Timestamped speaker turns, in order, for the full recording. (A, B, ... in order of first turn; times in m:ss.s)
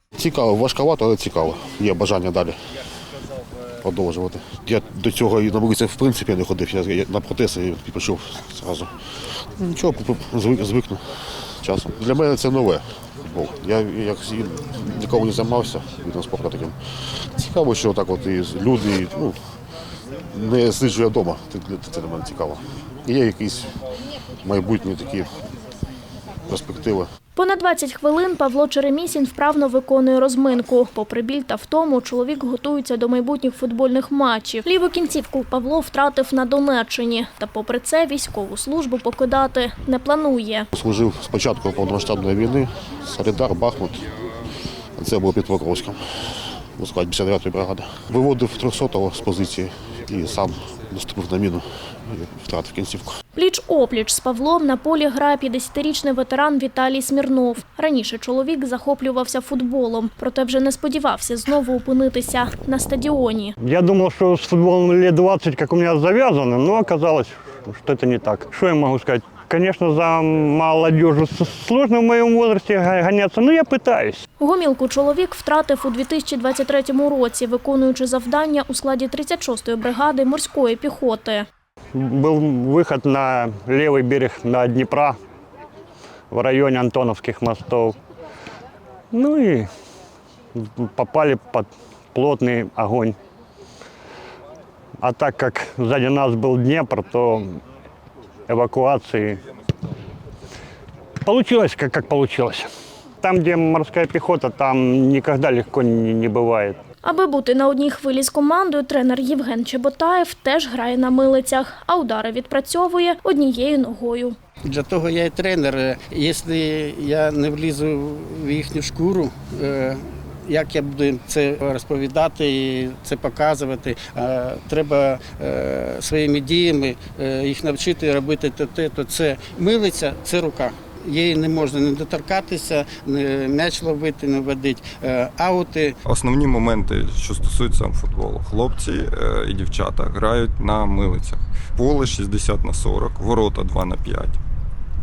0:00.2-0:02.6 A
0:03.8-0:08.9 A
0:09.4-0:19.4 A
0:20.3-0:23.8 A
0:24.4-0:25.3 A
0:26.5-0:27.1 A
0:27.3-0:40.7 B
0:40.7-0:44.1 A
0:45.0-0:53.2 A
0:53.3-1:03.6 B
1:03.6-1:14.2 C
1:14.4-1:21.5 B
1:21.9-1:25.2 C
1:26.3-1:28.0 C
1:29.1-1:29.7 C
1:30.5-1:33.2 C
1:35.0-1:37.6 C
1:38.5-1:39.4 C
1:41.2-1:42.7 C
1:43.2-1:46.8 C
1:47.0-1:54.4 B
1:54.6-2:16.0 D
2:16.1-2:24.4 E